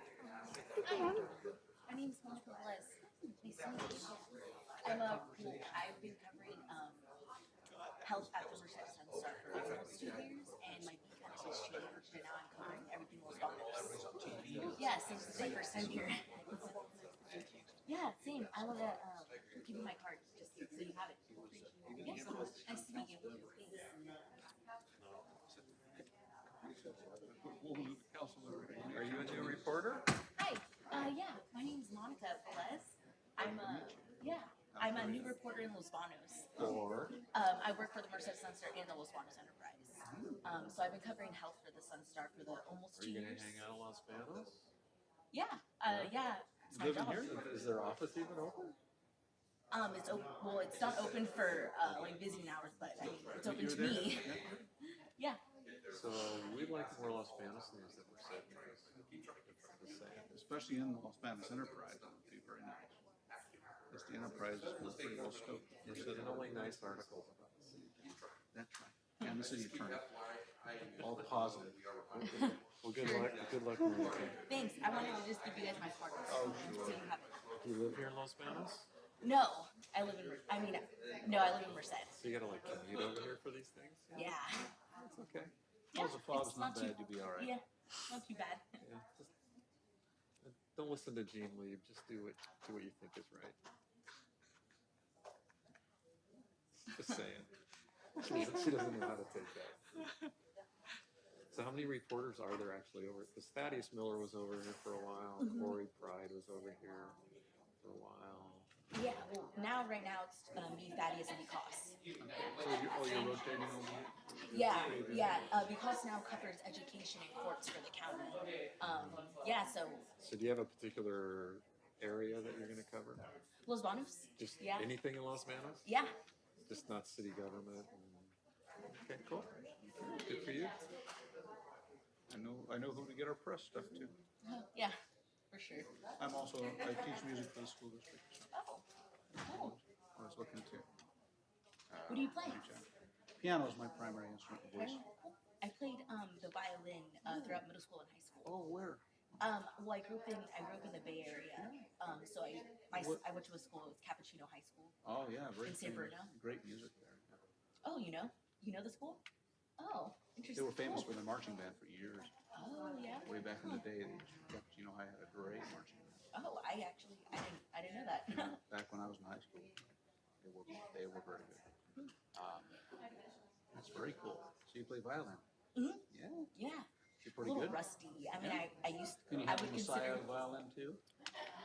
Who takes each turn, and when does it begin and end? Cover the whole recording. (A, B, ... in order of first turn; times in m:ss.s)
0:00.2-0:01.3 A
0:01.9-0:04.2 A
0:04.8-0:07.0 A
0:08.0-0:14.0 A
0:13.7-0:17.7 B
0:14.7-0:16.7 A
0:17.9-0:23.9 A
0:21.4-0:23.2 B
0:25.5-0:26.0 B
0:26.6-0:29.7 B
0:28.8-0:30.1 C
0:30.4-0:36.5 A
0:33.4-0:34.1 B
0:34.7-0:35.4 B
0:36.6-0:37.2 C
0:37.3-0:43.6 A
0:40.0-0:40.4 B
0:42.9-0:44.6 C
0:45.3-0:47.4 A
0:45.8-0:46.1 C
0:46.7-0:47.0 B
0:46.8-0:48.8 C
0:49.7-0:54.4 A
0:53.3-0:54.6 B
0:55.9-0:58.9 C
0:59.4-1:00.3 C
1:00.3-1:03.0 B
1:03.9-1:06.9 B
1:05.8-1:08.0 C
1:08.5-1:10.1 B
1:11.0-1:11.8 B
1:12.3-1:13.4 A
1:12.8-1:14.4 C
1:14.5-1:17.4 A
1:16.3-1:17.0 B
1:17.6-1:18.9 C
1:19.2-1:22.2 A
1:22.1-1:24.4 C
1:24.1-1:24.7 A
1:25.0-1:25.5 C
1:25.9-1:28.6 A
1:25.9-1:27.5 B
1:28.8-1:29.3 C
1:30.4-1:33.6 C
1:36.9-1:37.5 C
1:38.2-1:39.8 C
1:41.5-1:47.2 C
1:45.4-1:45.8 A
1:47.8-1:48.7 C
1:48.9-1:52.0 A
1:52.2-1:55.6 B
1:52.9-1:53.4 A
1:54.5-2:00.1 A
2:00.2-2:03.2 C
2:03.7-2:04.9 A
2:04.4-2:05.8 C
2:05.8-2:06.1 A
2:06.7-2:08.3 C
2:09.0-2:09.4 C
2:09.2-2:09.5 B
2:10.0-2:10.8 C
2:12.3-2:14.2 B
2:14.4-2:15.0 A
2:15.5-2:15.9 A
2:16.2-2:18.5 B
2:18.5-2:18.8 A
2:19.4-2:20.9 B
2:19.4-2:19.8 A
2:21.9-2:22.9 B
2:22.1-2:22.8 A
2:23.4-2:25.0 B
2:24.7-2:28.6 A
2:27.3-2:27.6 B
2:28.4-2:29.0 B
2:29.4-2:35.0 A
2:32.9-2:33.2 B
2:35.0-2:37.4 B
2:35.6-2:36.3 A
2:37.8-2:39.2 A
2:39.8-2:41.1 A
2:40.6-2:42.3 B
2:42.5-2:43.8 A
2:43.2-2:46.2 B
2:46.3-2:48.6 A
2:48.3-2:49.9 B
2:50.4-2:51.7 B
2:52.3-2:52.7 B
2:53.7-2:55.4 B
2:55.8-2:56.0 A
2:56.1-2:56.5 B
2:56.5-2:56.9 A
2:57.2-2:57.8 B
2:57.4-3:00.3 A
2:58.4-2:58.6 B
2:59.3-3:01.0 B